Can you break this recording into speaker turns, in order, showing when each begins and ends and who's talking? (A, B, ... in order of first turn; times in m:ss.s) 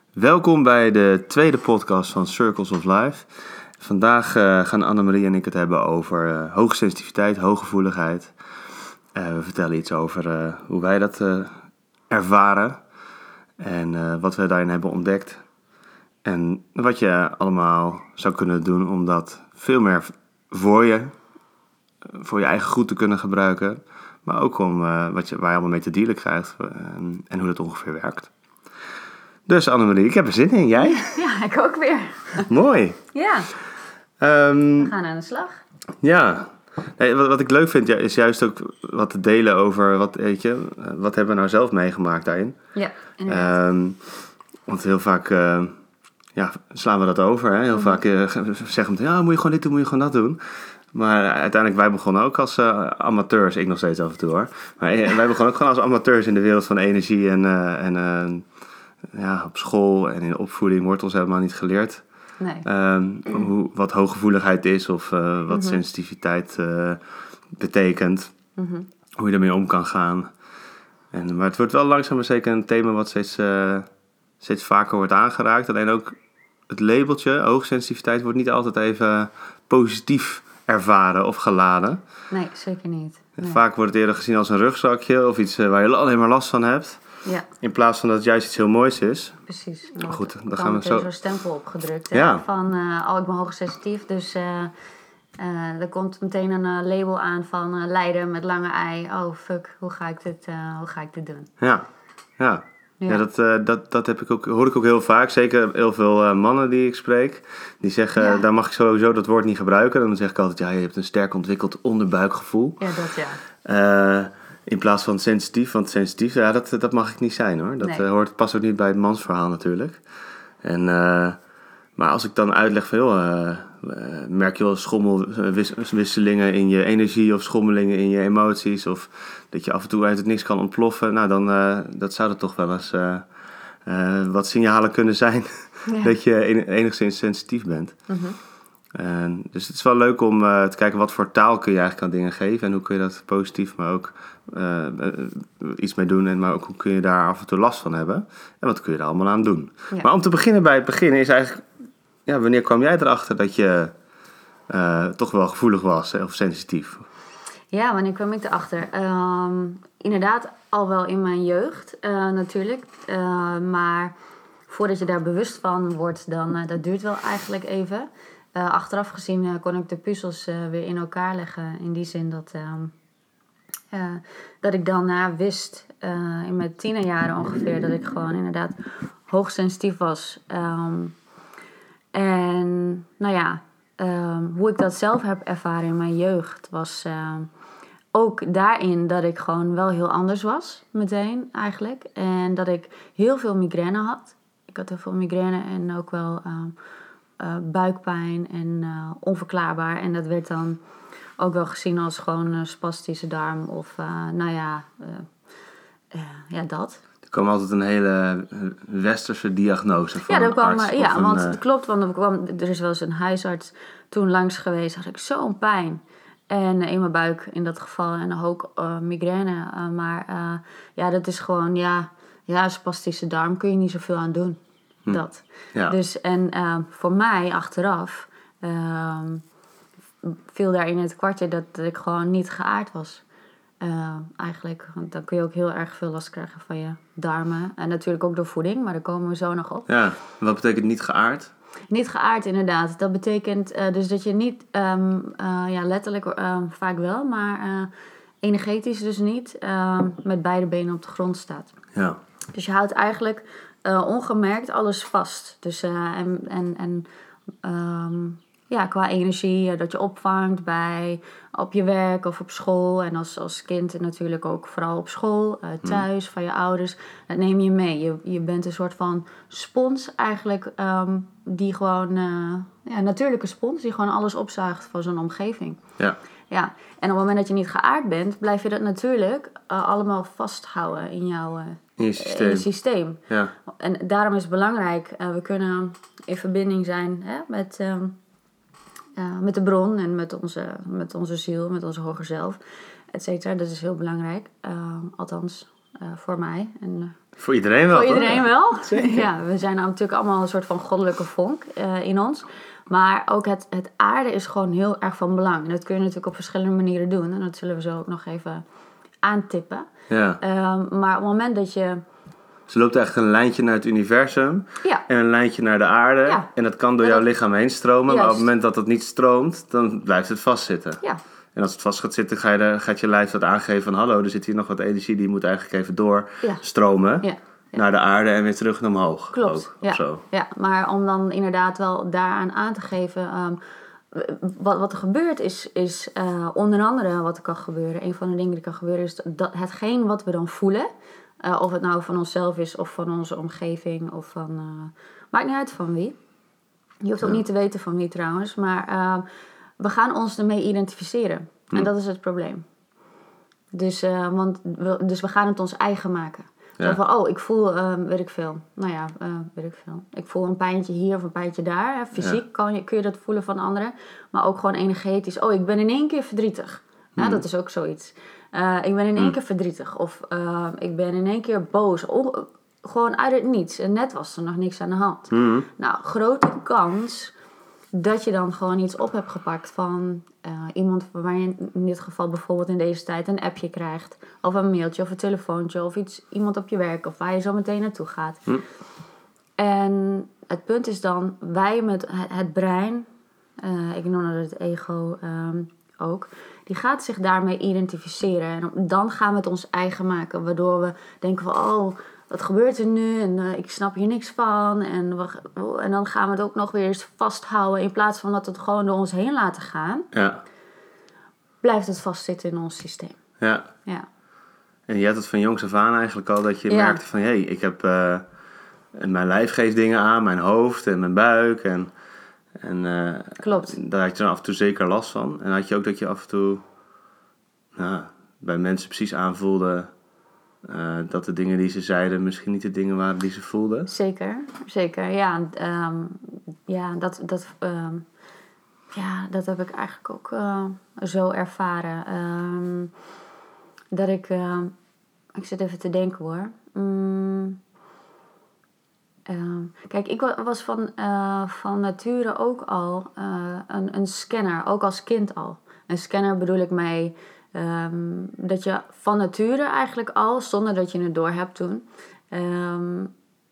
0:00.2-0:03.3 A
0:03.8-0:08.3 A
0:09.1-0:11.5 A
0:12.1-0:12.8 A
0:13.6-0:15.4 A
0:16.2-0:21.1 A
0:22.1-0:28.3 A
0:29.5-0:31.2 A
0:30.8-0:32.5 B
0:32.4-0:33.0 A
0:33.1-0:33.5 B
0:34.2-0:34.9 A
0:34.8-0:35.6 B
0:36.0-0:42.6 A
0:42.7-0:43.6 B
0:43.3-0:44.0 A
0:44.7-0:45.7 A
0:46.4-0:50.4 A
0:47.7-0:48.0 B
0:50.9-0:58.4 A
0:59.1-1:02.0 A
1:02.4-1:02.6 B
1:02.6-1:07.0 A
1:05.5-1:05.8 B
1:07.5-1:08.3 A
1:08.6-1:08.9 B
1:09.2-1:10.3 A
1:11.1-1:13.9 A
1:14.4-1:16.2 A
1:16.7-1:22.0 A
1:22.3-1:23.6 B
1:23.4-1:27.0 A
1:27.6-1:29.4 A
1:29.5-1:34.7 B
1:30.0-1:31.1 A
1:32.1-1:32.4 A
1:35.4-1:41.5 B
1:41.6-1:41.9 A
1:42.4-1:52.9 A
1:48.2-1:48.4 B
1:52.8-1:53.4 B
1:53.6-2:00.0 A
2:00.6-2:01.4 A
2:02.0-2:13.3 A
2:13.8-2:18.0 A
2:15.8-2:16.1 B
2:18.1-2:18.4 B
2:18.9-2:31.6 A
2:32.2-2:33.9 A
2:34.7-2:37.0 A
2:37.7-2:44.1 B
2:44.7-2:52.9 B
2:53.9-3:01.1 B
3:02.1-3:07.5 B
3:08.1-3:16.7 B
3:17.4-3:20.8 B
3:21.4-3:25.3 B
3:26.1-3:27.0 B
3:27.3-3:31.6 A
3:30.2-3:49.4 B
3:50.2-3:53.2 B
3:53.8-3:59.9 B
3:59.9-4:01.5 A
4:01.9-4:07.9 B
4:08.4-4:11.7 B
4:12.5-4:17.0 B
4:17.6-4:35.8 B
4:36.5-4:48.2 B
4:42.0-4:42.7 A
4:49.2-4:52.6 B
4:53.1-4:57.2 B
4:57.4-4:59.3 A
4:57.9-5:08.6 B
5:09.2-5:09.9 B
5:10.1-5:10.4 A
5:10.4-5:12.0 B
5:12.7-5:21.0 A
5:18.1-5:18.5 B
5:21.5-5:30.2 A
5:27.2-5:27.8 B
5:29.3-5:33.6 B
5:34.1-5:40.9 B
5:41.4-5:46.2 B
5:47.0-5:49.2 B
5:49.8-5:52.6 B
5:53.7-6:17.3 B
6:07.2-6:07.4 A
6:15.3-6:15.7 A
6:17.9-6:28.4 B
6:29.6-6:33.0 B
6:33.6-6:50.1 B
6:50.1-6:50.4 A
6:51.6-6:53.2 B
6:53.4-6:53.7 A
6:54.9-6:58.2 A
6:56.7-6:57.0 B
6:58.9-7:01.9 A
7:02.6-7:06.6 A
7:03.4-7:03.8 B
7:07.7-7:09.9 A
7:10.6-7:13.9 A
7:13.9-7:18.0 B
7:18.9-7:22.9 B
7:23.9-7:24.7 B
7:25.3-7:27.6 B
7:29.2-7:43.1 B